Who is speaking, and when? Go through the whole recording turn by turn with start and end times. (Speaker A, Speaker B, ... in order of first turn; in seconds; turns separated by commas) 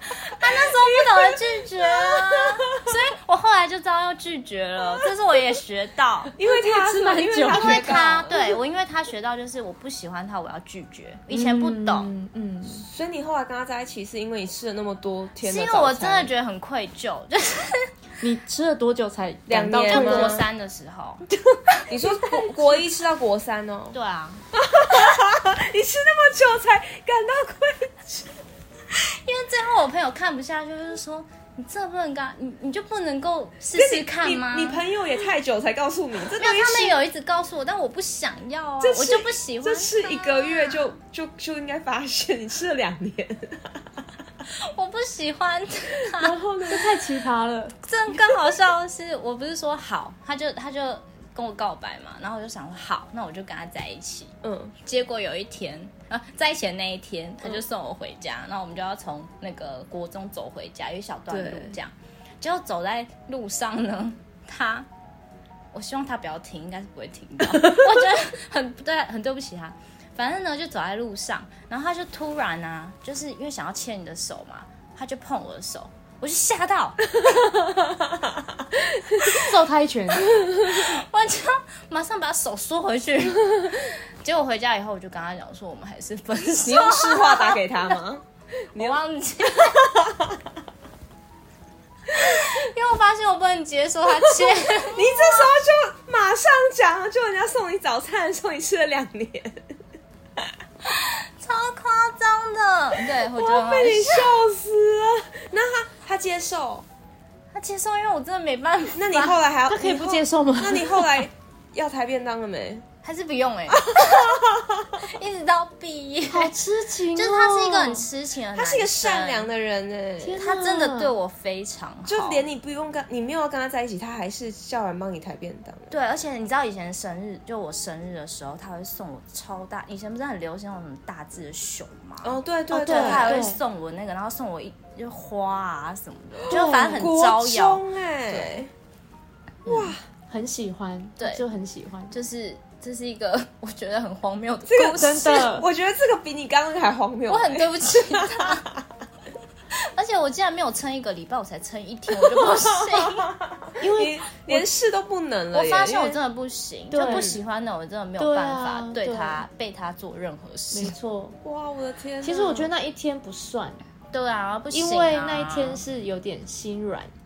Speaker A: 0.2-6.3, Speaker B: 0.4-3.0, Speaker B: 6.3-8.6, Speaker C: 6.4-8.3, Speaker A: 7.5-12.1, Speaker C: 11.3-12.8, Speaker B: 12.7-16.3, Speaker A: 15.4-17.9, Speaker C: 18.2-20.4, Speaker B: 19.5-20.4, Speaker A: 19.9-21.2, Speaker B: 21.9-23.9, Speaker C: 22.1-22.8, Speaker A: 23.9-24.4, Speaker B: 24.5-28.3, Speaker A: 28.9-34.8, Speaker B: 33.7-37.0, Speaker A: 36.4-40.9, Speaker B: 38.8-44.0, Speaker A: 44.5-46.3, Speaker B: 46.2-47.1, Speaker C: 46.2-47.8, Speaker A: 47.8-64.9, Speaker B: 48.1-48.6, Speaker B: 54.4-54.7, Speaker B: 61.3-61.8, Speaker A: 65.7-77.0, Speaker C: 79.0-80.3, Speaker B: 80.3-80.9, Speaker A: 80.6-87.6, Speaker B: 86.7-89.0, Speaker A: 88.8-90.0, Speaker B: 89.5-90.4, Speaker A: 92.1-95.4, Speaker B: 94.2-99.7, Speaker A: 100.8-104.3, Speaker B: 103.0-106.8, Speaker A: 107.5-109.3, Speaker B: 108.9-112.8, Speaker C: 109.7-111.2, Speaker A: 113.0-114.4, Speaker B: 113.7-115.0, Speaker A: 114.9-116.5, Speaker C: 116.3-118.0, Speaker A: 117.1-119.5, Speaker B: 118.5-120.4, Speaker C: 120.2-121.1, Speaker A: 120.4-122.5, Speaker B: 122.1-125.9, Speaker A: 125.9-138.6, Speaker B: 132.2-133.4, Speaker C: 132.7-133.6, Speaker B: 136.4-138.7, Speaker C: 136.5-137.1, Speaker A: 139.7-139.9, Speaker B: 139.7-140.0, Speaker C: 140.3-142.1, Speaker A: 142.1-145.6, Speaker B: 144.7-148.9, Speaker C: 145.1-145.6, Speaker A: 147.3-148.7, Speaker A: 149.9-153.3, Speaker B: 152.1-156.2, Speaker C: 153.8-154.7, Speaker A: 155.5-160.9, Speaker C: 156.9-157.3, Speaker B: 157.0-157.4, Speaker C: 158.2-159.4, Speaker C: 160.7-161.4, Speaker B: 161.4-162.7, Speaker C: 162.2-163.8, Speaker A: 164.1-165.8, Speaker C: 164.7-167.1